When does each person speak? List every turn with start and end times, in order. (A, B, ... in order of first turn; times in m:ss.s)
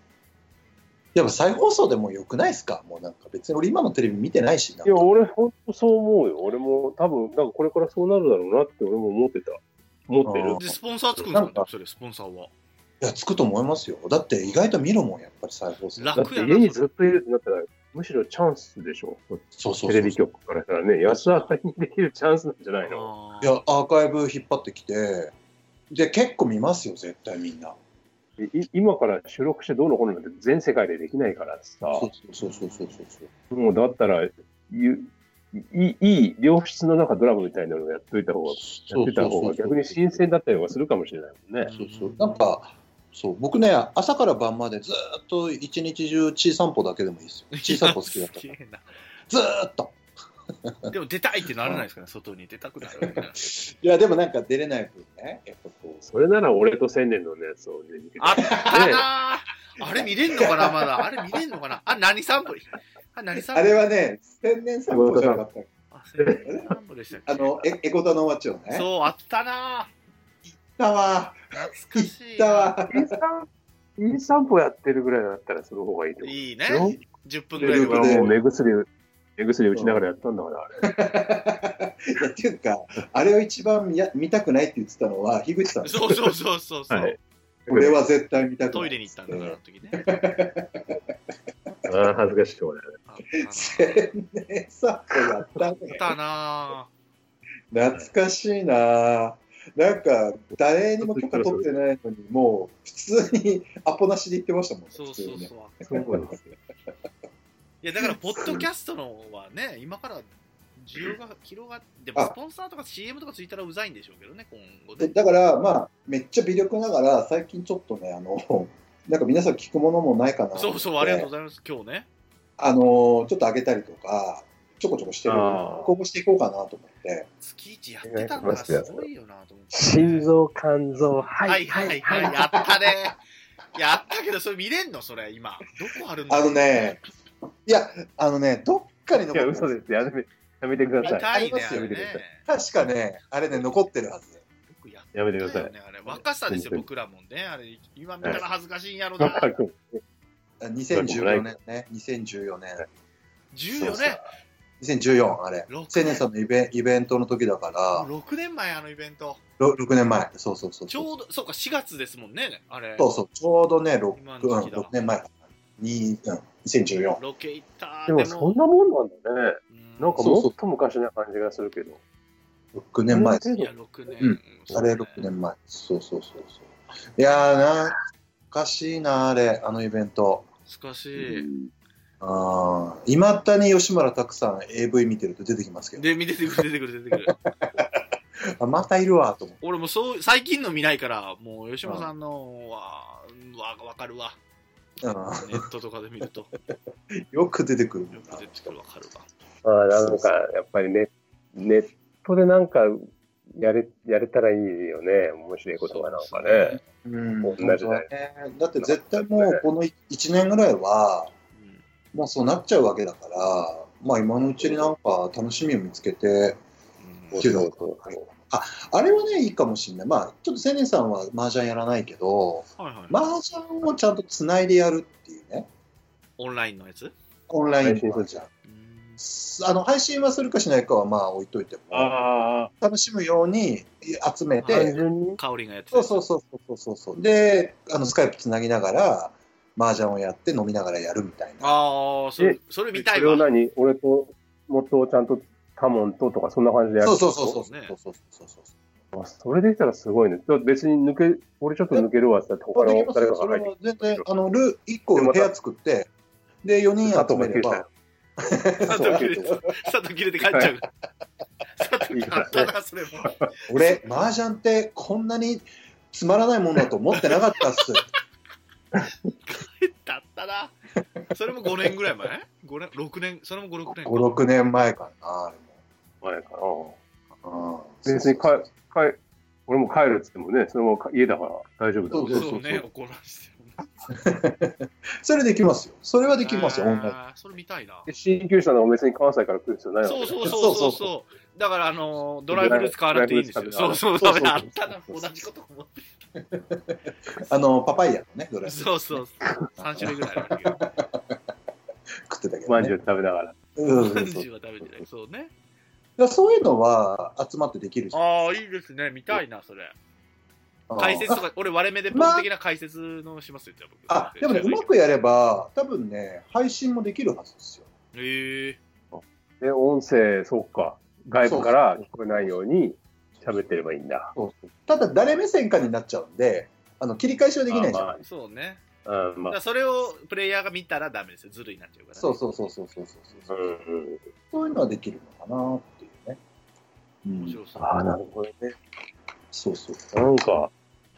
0:01.2-0:05.1 A
0:04.8-0:10.6 B
0:10.2-0:10.8 A
0:10.6-0:12.5 C
0:11.3-0:11.7 A
0:13.0-0:16.2 A
0:16.0-0:16.9 C
0:16.2-0:23.1 B
0:19.6-0:20.2 A
0:22.8-0:23.6 C
0:23.4-0:25.3 A
0:25.9-0:27.8 A
0:28.4-0:32.1 B
0:31.9-0:33.3 A
0:32.4-0:33.0 C
0:33.5-0:41.7 B
0:38.6-0:40.0 A
0:41.6-0:42.4 C
0:41.8-0:48.5 A
0:47.5-0:48.9 C
0:49.3-0:50.0 A
0:50.7-0:50.9 A
0:50.9-0:53.6 C
0:53.0-0:56.1 A
0:56.0-0:59.0 B
0:58.2-1:03.8 C
0:58.4-0:59.0 A
1:00.4-1:01.0 A
1:03.5-1:05.7 A
1:04.9-1:05.4 B
1:05.9-1:07.7 C
1:06.5-1:06.7 A
1:07.3-1:08.9 A
1:08.7-1:09.9 C
1:10.5-1:13.1 A
1:11.5-1:12.8 C
1:12.9-1:17.0 B
1:16.2-1:18.4 C
1:17.6-1:20.8 B
1:17.6-1:18.3 A
1:19.7-1:20.0 A
1:20.8-1:26.2 A
1:25.8-1:27.2 C
1:26.9-1:27.2 B
1:27.7-1:28.0 B
1:27.7-1:30.9 A
1:28.7-1:30.0 C
1:31.9-1:32.8 B
1:33.1-1:34.1 C
1:33.5-1:36.1 A
1:35.8-1:36.9 C
1:37.7-1:46.4 A
1:41.0-1:41.7 B
1:44.9-1:45.9 C
1:45.9-1:46.4 B
1:47.8-1:55.1 C
1:55.0-2:01.3 A
2:00.6-2:02.1 C
2:02.6-2:07.3 A
2:05.3-2:05.9 B
2:07.4-2:10.3 C
2:08.0-2:09.1 B
2:09.7-2:12.4 B
2:11.4-2:13.2 C
2:13.8-2:16.8 C
2:16.3-2:17.0 A
2:17.7-2:19.8 A
2:19.3-2:22.2 B
2:21.0-2:22.4 C
2:21.0-2:24.4 A
2:24.7-2:29.6 C
2:25.1-2:26.9 B
2:29.2-2:30.0 B
2:30.6-2:32.8 A
2:30.9-2:31.6 B
2:33.5-2:34.3 C
2:33.7-2:34.2 B
2:34.8-2:38.1 A
2:35.7-2:36.2 C
2:37.9-2:39.4 C
2:39.6-2:41.1 A
2:40.9-2:43.1 C
2:43.0-2:47.2 A
2:44.2-2:44.9 C
2:47.2-2:48.6 C
2:48.1-2:52.0 B
2:49.7-2:50.3 C
2:50.2-2:50.5 A
2:52.7-2:53.5 A
2:53.1-2:53.7 B
2:53.6-2:55.3 C
2:54.2-2:58.0 A
2:58.5-3:00.5 A
3:00.7-3:01.5 C
3:01.2-3:01.7 B
3:02.2-3:06.2 A
3:06.0-3:07.4 C
3:07.3-3:09.6 A
3:09.6-3:14.4 C
3:11.8-3:12.1 A
3:15.0-3:15.7 A
3:15.4-3:16.6 C
3:17.2-3:18.7 A
3:18.1-3:19.3 C
3:19.6-3:26.8 B
3:19.9-3:20.3 A
3:25.8-3:26.8 C
3:26.9-3:31.3 A
3:27.4-3:28.1 B
3:28.8-3:29.6 B
3:31.6-3:31.8 C
3:32.1-3:36.6 A
3:34.6-3:34.9 B
3:37.0-3:37.4 C
3:37.3-3:38.3 B
3:37.4-3:45.7 A
3:42.8-3:43.2 C
3:46.4-3:47.1 C
3:47.5-3:48.5 A
3:47.8-3:48.4 B
3:48.6-3:49.2 C
3:49.2-3:52.2 A
3:51.9-3:52.7 B
3:52.8-3:55.0 A
3:54.6-3:56.2 C
3:54.7-3:55.4 B
3:55.9-4:01.7 A
4:01.6-4:03.5 C
4:02.4-4:07.6 B
4:07.0-4:08.7 A
4:07.5-4:07.9 C
4:09.1-4:14.3 B
4:12.8-4:16.1 A
4:15.2-4:15.5 B
4:16.6-4:17.9 A
4:17.0-4:17.9 B
4:18.4-4:19.7 A
4:18.9-4:19.6 B
4:18.9-4:20.9 C
4:21.8-4:24.2 C
4:22.1-4:22.7 B
4:23.2-4:23.5 B
4:23.7-4:28.1 A
4:29.4-4:30.7 C
4:31.3-4:34.4 C
4:33.9-4:35.7 A
4:36.2-4:37.0 B
4:37.4-4:38.7 A
4:38.1-4:42.5 B
4:42.1-4:42.8 A
4:42.3-4:43.8 C
4:44.1-4:47.2 A
4:46.4-4:48.1 C
4:48.1-4:50.6 B
4:50.0-4:56.0 C
4:50.4-4:51.1 A
4:52.5-4:54.1 B
4:54.2-4:54.6 A
4:56.5-4:58.9 A
4:58.6-5:00.8 C
4:59.4-5:00.1 B
5:00.0-5:00.2 A
5:00.8-5:01.2 A
5:02.3-5:03.0 A
5:02.7-5:03.6 B
5:03.8-5:04.5 A
5:03.9-5:05.5 C
5:06.2-5:08.2 A
5:08.1-5:10.0 C
5:10.9-5:11.4 A
5:11.0-5:14.9 C
5:12.1-5:12.5 A
5:14.1-5:17.9 A
5:18.1-5:18.8 C
5:19.1-5:24.3 B
5:21.4-5:22.6 A
5:23.4-5:23.8 A
5:24.4-5:28.1 A
5:27.7-5:28.3 B
5:28.2-5:28.8 C
5:29.0-5:29.6 B
5:29.5-5:32.4 C
5:32.2-5:33.8 A
5:33.5-5:34.2 B
5:34.5-5:36.4 A
5:37.2-5:37.6 A
5:37.4-5:38.0 C
5:37.8-5:38.8 B
5:39.5-5:40.1 A
5:40.1-5:40.7 B